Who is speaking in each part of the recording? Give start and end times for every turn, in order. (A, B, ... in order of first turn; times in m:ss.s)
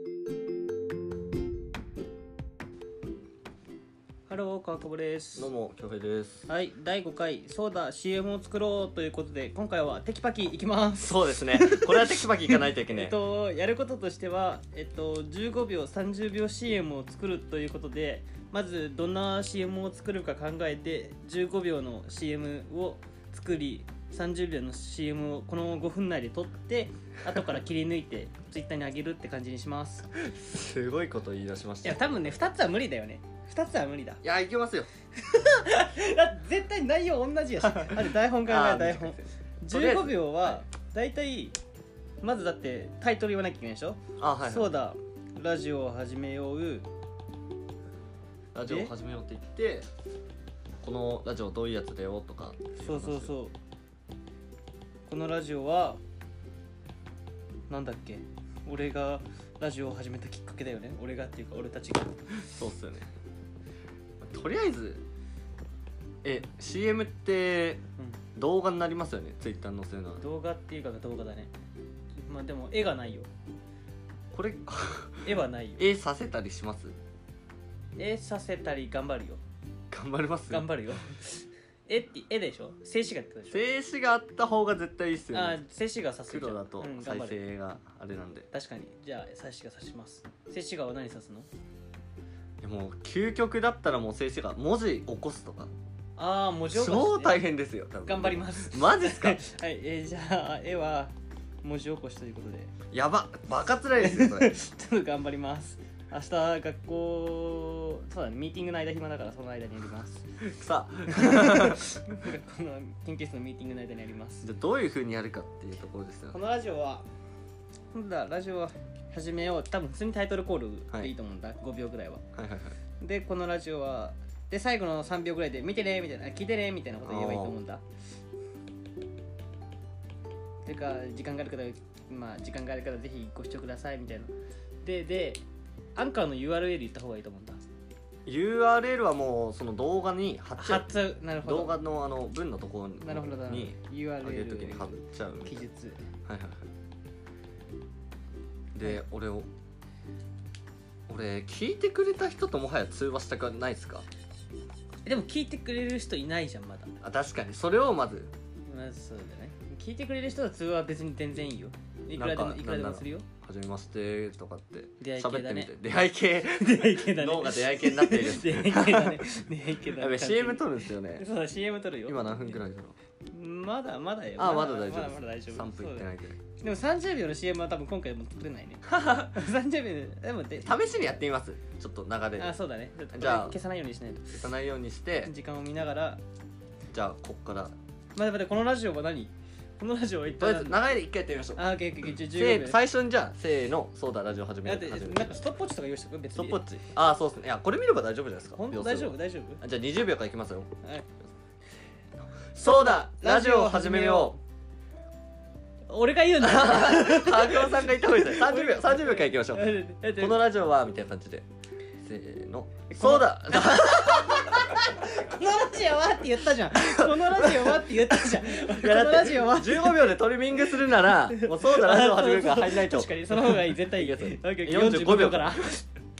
0:04.3-0:05.5 A
0:05.4-0:06.5 B
0:06.5-0:30.1 A
0:11.0-0:13.2 B
0:30.1-0:32.1 B
0:31.8-0:34.2 A
0:34.2-0:34.9 B
0:35.2-0:41.6 A
0:37.8-0:40.6 B
0:42.2-0:46.8 A
0:44.2-0:44.7 B
0:48.5-0:49.9 B
0:48.6-0:48.9 A
0:50.8-0:53.3 B
0:52.8-0:53.5 A
0:55.1-0:56.0 A
0:57.7-1:02.2 A
1:02.4-1:03.1 B
1:04.2-1:05.0 B
1:06.2-1:07.8 B
1:08.4-1:10.2 B
1:10.2-1:11.5 A
1:12.2-1:13.3 A
1:14.3-1:17.0 B
1:15.2-1:15.8 A
1:18.0-1:19.4 A
1:19.9-1:20.7 B
1:20.5-1:23.6 A
1:23.5-1:25.6 B
1:25.3-1:27.4 A
1:26.3-1:28.5 B
1:28.5-1:31.5 A
1:32.6-1:35.7 B
1:36.2-1:37.4 A
1:36.7-1:39.4 B
1:38.0-1:42.7 A
1:42.9-1:44.6 B
1:44.0-1:50.4 A
1:50.5-1:51.8 B
1:51.1-1:54.5 A
1:54.4-1:56.4 B
1:56.3-1:57.0 A
1:57.9-2:02.2 A
2:02.4-2:02.7 B
2:03.0-2:07.8 A
2:07.0-2:07.6 B
2:10.6-2:14.3 A
2:14.8-2:15.4 A
2:16.0-2:17.6 A
2:18.2-2:20.9 B
2:20.6-2:21.8 A
2:21.4-2:25.6 B
2:23.0-2:26.0 A
2:26.2-2:26.7 B
2:28.7-2:29.5 B
2:31.1-2:34.0 B
2:35.0-2:36.9 A
2:37.0-2:38.3 B
2:38.6-2:43.3 A
2:42.1-2:49.3 B
2:45.0-2:45.7 A
2:46.5-2:52.6 A
2:49.8-2:51.3 B
2:52.1-2:53.0 B
2:53.3-3:01.0 A
2:54.4-2:56.4 B
2:58.9-2:59.3 B
3:00.6-3:02.5 B
3:02.4-3:04.4 A
3:03.1-3:03.6 B
3:04.3-3:05.3 B
3:05.2-3:06.2 A
3:06.9-3:07.7 B
3:08.2-3:10.8 A
3:10.4-3:15.4 B
3:11.6-3:12.8 A
3:14.6-3:16.6 A
3:16.3-3:20.7 B
3:18.5-3:19.6 A
3:22.5-3:24.4 B
3:22.6-3:24.4 A
3:25.9-3:30.4 A
3:26.4-3:31.4 B
3:32.0-3:34.7 B
3:32.9-3:45.8 A
3:36.7-3:45.6 B